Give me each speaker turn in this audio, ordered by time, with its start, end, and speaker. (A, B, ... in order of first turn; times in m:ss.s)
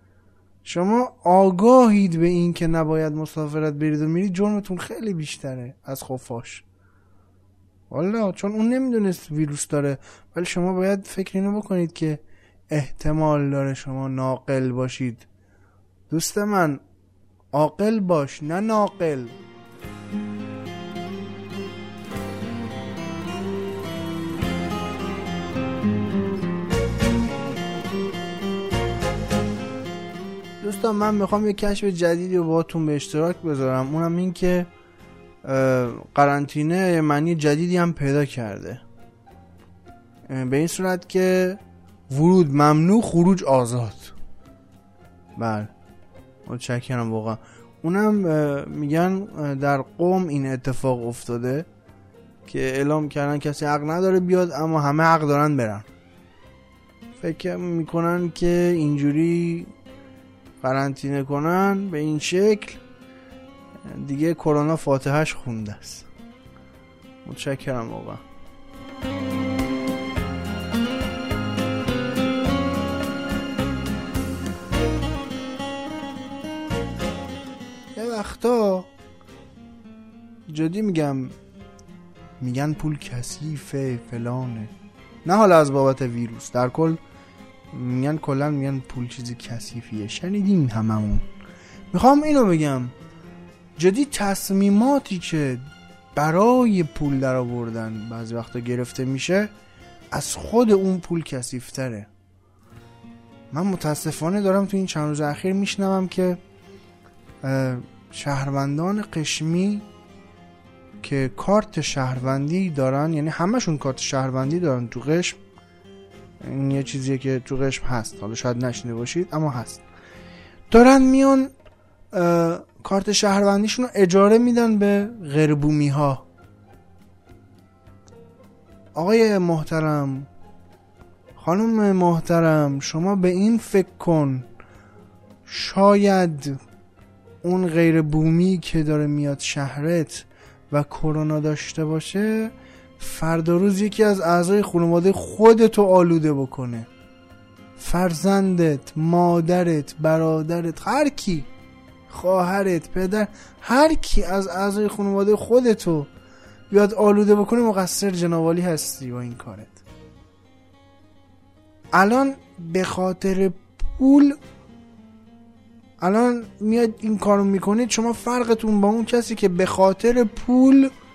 0:00.6-0:06.6 A
0:07.9-0:15.3 A
0:16.1-0:16.8 A
0:17.5-0:19.4 A
0:30.6-0:34.7 A
0:35.4-0:38.8 A
0:40.3-0:44.1 A
0:45.4-0:45.7 A
0:46.4-0:51.7 A
0:52.4-0:55.9 A
0:57.2-0:59.7 A
1:00.6-1:02.8 A
1:03.8-1:06.1 A
1:07.2-1:08.2 A
1:17.9-1:18.9 A
1:20.5-1:21.4 A
1:22.4-1:24.7 A
1:25.2-1:27.0 A
1:27.7-1:31.2 A
1:31.9-1:32.9 A
1:33.8-1:35.6 A
1:36.2-1:39.5 A
1:40.1-1:42.1 A
1:43.5-1:46.4 A
1:47.4-1:49.9 A
1:51.0-1:55.4 A
1:56.4-1:59.8 A
2:00.7-2:01.5 A
2:02.1-2:06.2 A
2:08.9-2:10.3 A
2:11.4-2:14.5 A
2:15.4-2:16.6 A
2:17.4-2:26.9 A
2:27.8-2:31.5 A
2:32.1-2:36.1 A
2:36.7-2:39.8 A
2:41.9-2:44.4 A
2:46.0-2:50.9 A